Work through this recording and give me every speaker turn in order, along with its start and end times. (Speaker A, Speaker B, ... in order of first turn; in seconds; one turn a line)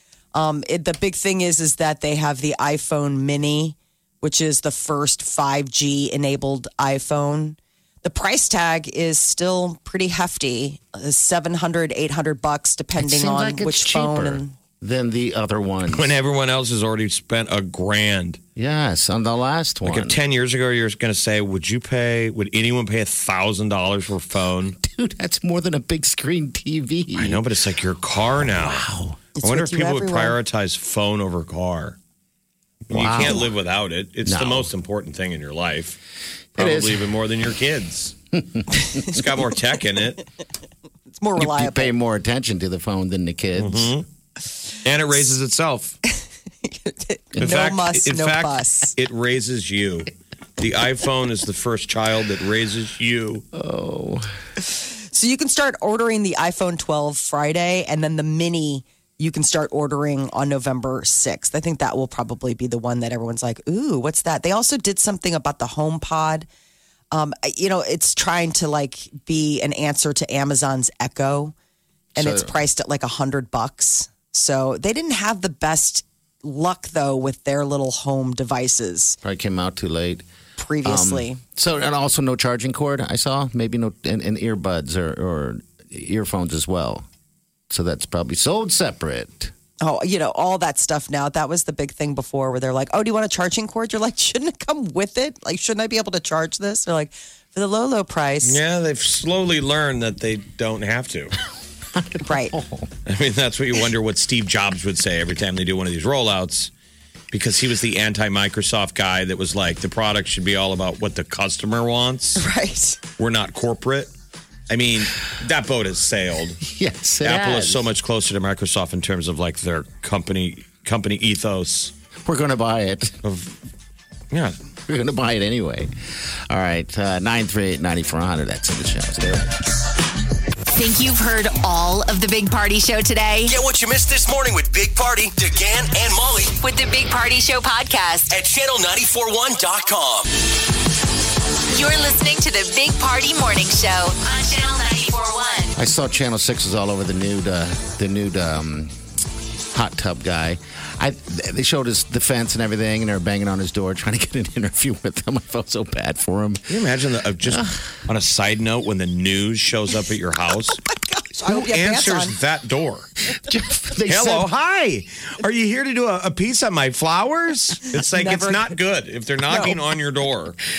Speaker A: 0.3-14.5
Speaker B: 13.0-16.2
Speaker C: 15.9-18.4
Speaker B: 18.6-20.2
Speaker C: 19.8-24.8
Speaker B: 24.8-27.4
Speaker C: 27.1-28.9
Speaker B: 28.5-29.2
Speaker A: 29.4-30.4
Speaker C: 29.4-32.0
Speaker C: 32.9-36.0
Speaker B: 32.9-33.5
Speaker B: 34.2-34.7
Speaker B: 36.6-37.1
Speaker C: 36.6-38.1
Speaker B: 38.3-38.9
Speaker C: 38.9-40.2
Speaker A: 41.1-41.9
Speaker B: 41.4-43.9
Speaker C: 43.6-44.0
Speaker C: 44.8-46.0
Speaker A: 46.6-48.9
Speaker C: 47.4-53.5
Speaker B: 53.5-54.3
Speaker A: 54.7-66.5
Speaker A: 67.1-71.5
Speaker B: 72.2-72.5
Speaker A: 72.2-79.2
Speaker B: 79.2-80.2
Speaker A: 80.6-81.4
Speaker B: 80.8-87.0
Speaker B: 87.7-89.5
Speaker A: 89.8-98.6
Speaker C: 98.4-101.3
Speaker B: 101.9-102.9
Speaker A: 102.2-102.5
Speaker C: 103.1-106.7
Speaker C: 107.3-112.4
Speaker A: 112.4-113.0
Speaker C: 113.2-114.1
Speaker C: 114.7-116.6
Speaker B: 116.6-117.9
Speaker C: 117.2-121.9
Speaker B: 122.3-123.2
Speaker C: 123.2-123.5
Speaker C: 124.3-124.6
Speaker B: 124.9-125.9
Speaker B: 126.5-129.5
Speaker D: 130.7-133.6
Speaker E: 133.5-136.6
Speaker D: 136.6-138.3
Speaker E: 138.3-140.3
Speaker D: 141.7-145.8
Speaker B: 145.8-148.9
Speaker B: 149.7-156.8
Speaker C: 156.7-160.8
Speaker B: 157.4-157.8
Speaker A: 160.9-162.3
Speaker C: 161.4-163.1
Speaker B: 163.3-164.6
Speaker C: 164.1-170.6
Speaker A: 168.0-168.7
Speaker A: 169.5-169.8